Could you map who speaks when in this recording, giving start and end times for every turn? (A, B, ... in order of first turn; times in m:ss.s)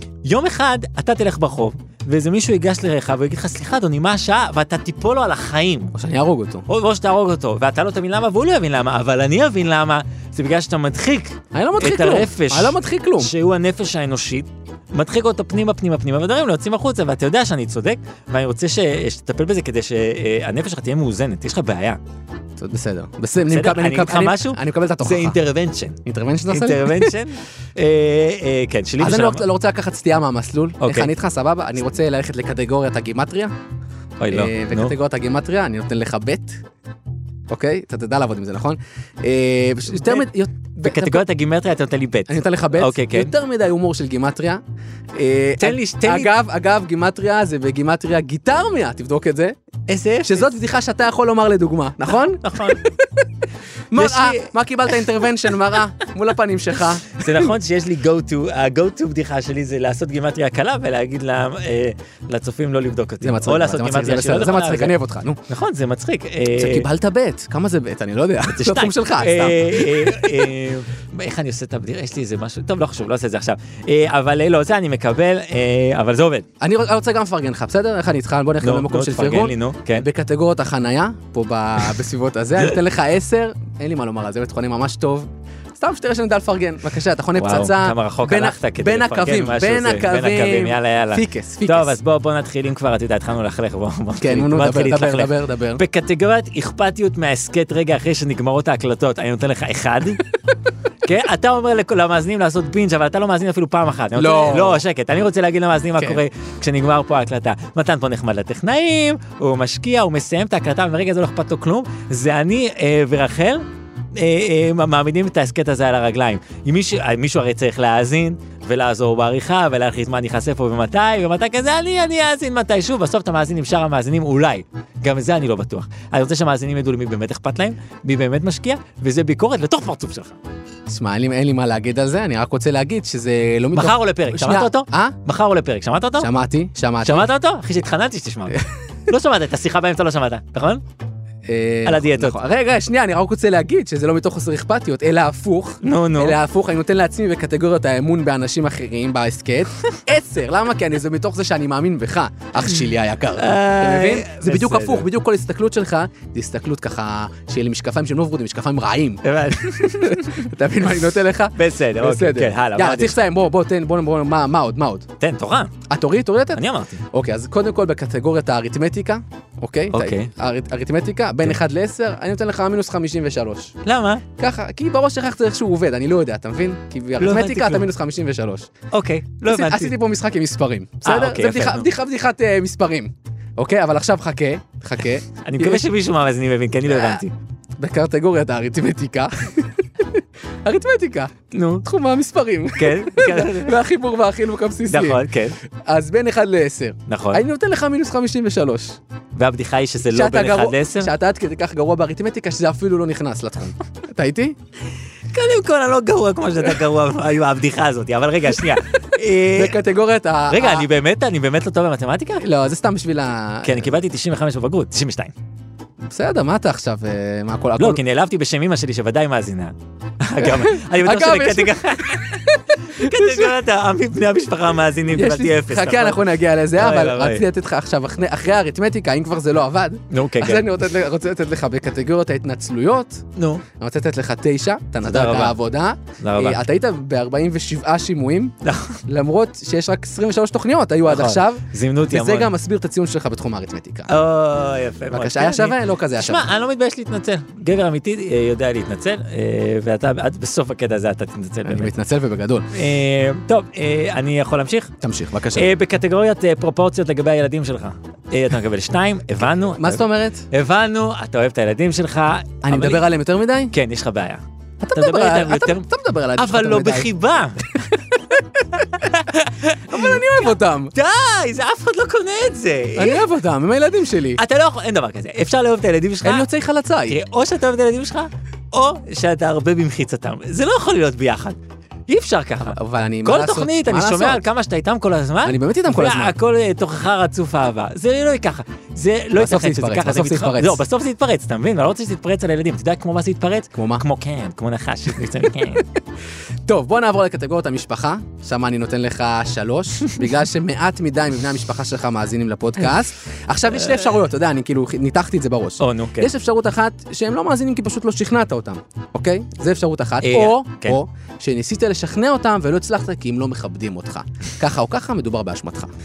0:00.2-0:06.0 A
0:06.0-0:06.7 B
0:06.7-0:22.0 A
0:11.5-0:13.3 B
0:22.6-0:25.4 B
0:23.5-0:29.4 A
0:26.0-0:27.2 B
0:29.0-0:33.5 B
0:30.8-0:31.1 A
0:34.2-0:34.9 A
0:34.3-0:36.6 B
0:37.5-0:41.3 B
0:40.8-0:43.3 A
0:42.3-0:44.6 B
0:45.2-0:49.6 B
0:45.6-0:46.3 A
0:49.9-0:50.5 A
0:50.2-0:53.2 B
0:52.4-0:52.8 A
0:53.9-0:57.5 B
0:53.9-0:54.5 A
0:57.1-1:04.9 A
1:03.2-1:05.4 B
1:05.5-1:06.9 A
1:06.6-1:10.5 B
1:08.5-1:16.5 A
1:16.6-1:32.0 B
1:18.6-1:20.1 A
1:27.4-1:40.2 A
1:34.2-1:35.8 B
1:41.0-2:10.4 A
1:44.2-1:44.8 B
2:10.9-2:15.2 B
2:13.7-2:16.3 A
2:16.2-2:17.3 B
2:17.0-2:20.8 A
2:21.5-2:45.1 B
2:21.9-2:22.4 A
2:25.8-2:26.4 A
2:33.4-2:35.1 A
2:39.2-2:40.5 A
2:41.6-2:43.2 A
2:45.2-2:45.7 A
2:45.9-2:53.8 B
2:46.5-2:47.0 A
2:49.9-2:50.3 A
2:53.8-2:54.2 A
2:54.4-2:58.7 B
2:57.2-2:57.9 A
2:58.9-2:59.9 A
2:59.5-3:05.9 B
3:01.0-3:01.9 A
3:05.4-3:07.3 A
3:06.9-3:07.2 B
3:07.8-3:11.3 B
3:11.5-3:11.8 A
3:11.8-3:15.2 B
3:12.8-3:13.8 A
3:14.9-3:15.6 A
3:15.8-3:19.0 B
3:17.1-3:17.4 A
3:19.4-3:21.1 A
3:20.0-3:24.6 B
3:25.3-3:29.8 A
3:29.5-3:30.9 B
3:30.5-3:32.4 A
3:32.4-3:33.9 B
3:33.6-3:35.3 A
3:36.1-3:38.0 B
3:37.8-3:47.4 A
3:40.4-3:43.6 B
3:45.1-3:53.2 B
3:50.1-3:50.7 A
3:53.4-3:53.6 A
3:53.8-3:58.6 B
3:55.0-3:55.6 A
3:56.2-3:56.6 A
3:58.6-3:59.0 A
3:59.1-4:04.1 B
4:01.1-4:02.5 A
4:04.1-4:11.9 A
4:05.1-4:06.5 B
4:11.6-4:12.7 B
4:12.7-4:14.9 A
4:15.0-4:15.7 B
4:15.5-4:23.1 A
4:19.6-4:20.4 B
4:22.6-4:23.7 B
4:23.7-4:27.7 A
4:24.8-4:27.1 B
4:27.8-4:28.8 B
4:28.8-4:30.4 A
4:29.9-4:30.9 B
4:30.9-4:33.3 A
4:33.0-4:34.4 B
4:34.4-4:36.5 A
4:36.2-4:37.2 B
4:37.1-4:41.6 A
4:42.1-4:55.9 A
4:42.7-4:44.4 B
4:45.4-4:46.4 B
4:49.4-4:50.8 B
4:53.7-4:54.0 B
4:56.7-5:15.9 B
5:05.8-5:06.3 A
5:10.2-5:11.0 A